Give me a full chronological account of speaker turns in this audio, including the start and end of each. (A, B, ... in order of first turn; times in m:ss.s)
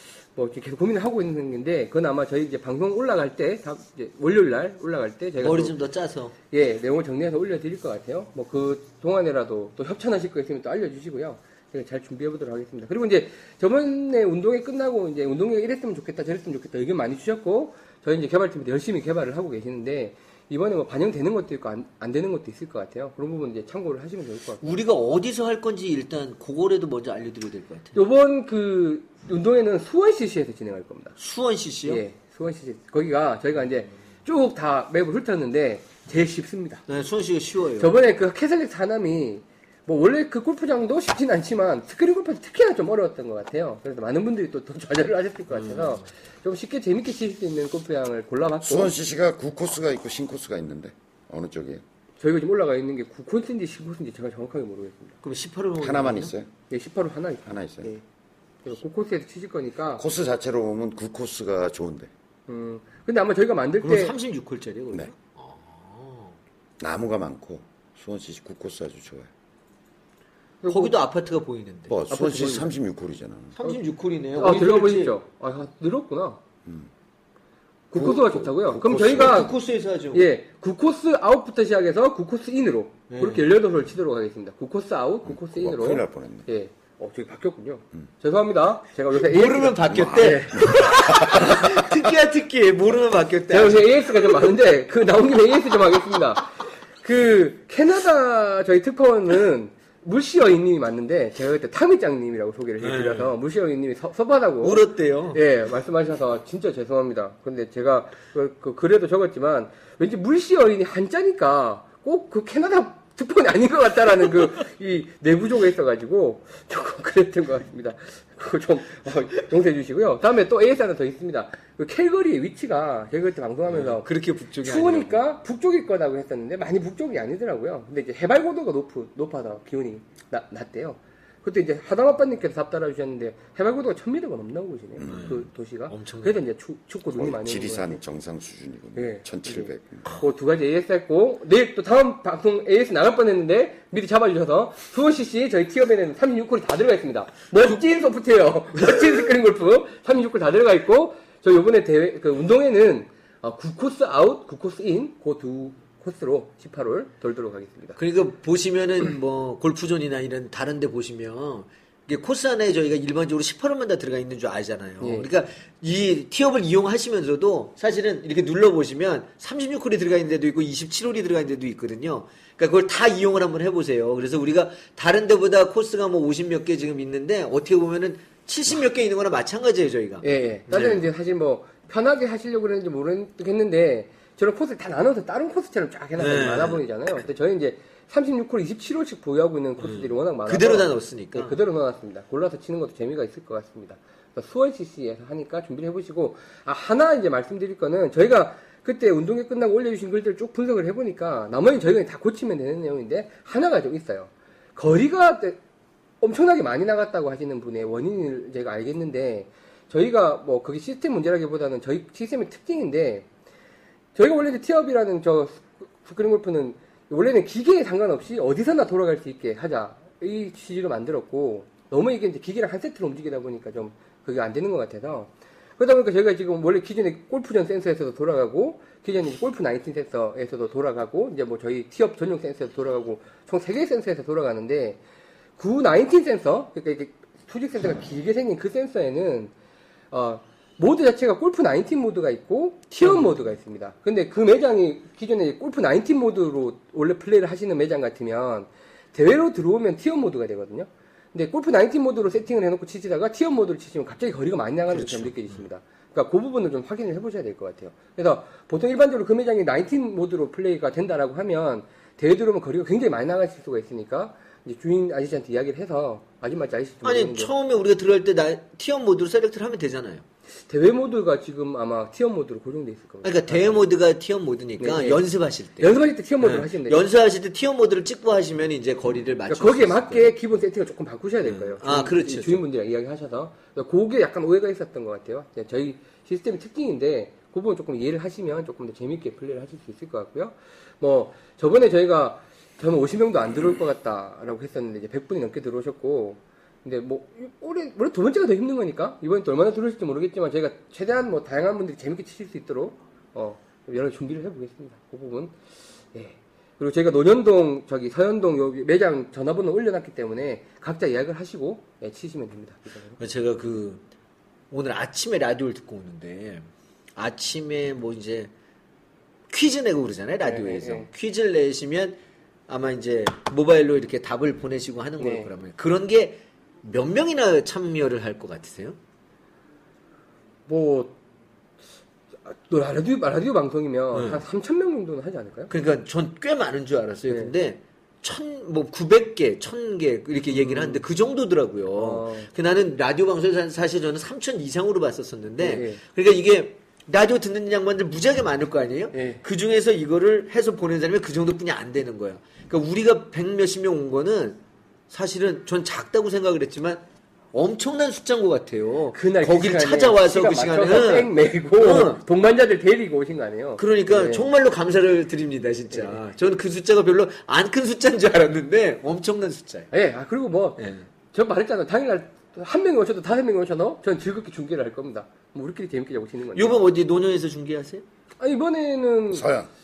0:00.4-0:05.8 A
0:05.4-0:06.3 B
0:06.5-0:24.7 A
0:24.6-0:28.0 B
0:28.0-0:31.2 A
0:31.2-0:32.0 B
0:31.8-0:36.8 A
0:36.9-0:38.0 B
0:37.8-0:48.9 A
0:45.5-0:46.0 B
0:48.6-0:51.8 C
0:52.2-0:55.2 A
0:55.2-0:56.3 B
0:55.8-0:56.5 C
0:56.7-0:58.0 A
0:57.5-0:58.0 C
0:58.6-1:00.0 A
1:00.0-1:02.1 C
1:02.5-1:04.2 A
1:03.8-1:06.4 B
1:06.8-1:09.3 C
1:10.6-1:11.0 A
1:10.7-1:12.0 B
1:11.9-1:13.6 C
1:12.1-1:12.7 A
1:13.6-1:15.2 B
1:14.4-1:16.4 A
1:17.9-1:19.5 A
1:18.0-1:19.5 C
1:19.0-1:20.3 B
1:20.1-1:30.8 A
1:23.1-1:23.6 B
1:25.2-1:26.5 C
1:29.1-1:34.4 B
1:29.9-1:31.8 C
1:33.5-1:36.5 A
1:37.0-2:04.1 A
1:42.8-1:43.3 B
1:44.6-1:45.4 B
2:03.7-2:05.2 B
2:04.6-2:18.0 A
2:15.0-2:15.3 C
2:15.1-2:16.4 B
2:17.1-2:20.1 C
2:19.0-2:38.0 A
2:38.0-3:01.1 B
2:45.0-2:45.3 A
3:00.2-3:25.6 A
3:06.2-3:06.8 B
3:09.8-3:11.6 B
3:26.2-3:33.3 A
3:34.2-3:55.0 A
3:55.6-3:59.5 A
4:00.1-4:27.5 A
4:03.0-4:03.3 B
4:14.9-4:15.6 B
4:27.0-4:30.2 B
4:30.7-4:33.9 A
4:33.2-4:40.3 B
4:34.8-4:35.2 A
4:35.8-4:37.1 A
4:39.5-5:05.5 A
4:41.4-4:42.6 B
5:06.1-5:13.2 A
5:13.2-5:14.0 B
5:14.7-5:18.5 B
5:19.5-5:22.2 B
5:20.4-5:21.1 A
5:22.7-5:29.0 B
5:25.2-5:25.5 A
5:30.7-5:31.2 A
5:32.5-5:35.7 A
5:34.1-5:34.4 B
5:35.7-6:02.2 B
5:37.3-5:37.5 A
5:40.5-5:41.0 A
5:42.0-5:42.5 A
5:45.6-5:46.0 A
5:49.1-5:49.4 A
5:59.2-6:04.5 A
6:03.8-6:09.9 B
6:05.9-6:06.2 A
6:09.9-6:16.8 A
6:10.8-6:11.0 B
6:16.6-6:18.0 B
6:18.4-6:19.5 A
6:19.3-6:19.7 C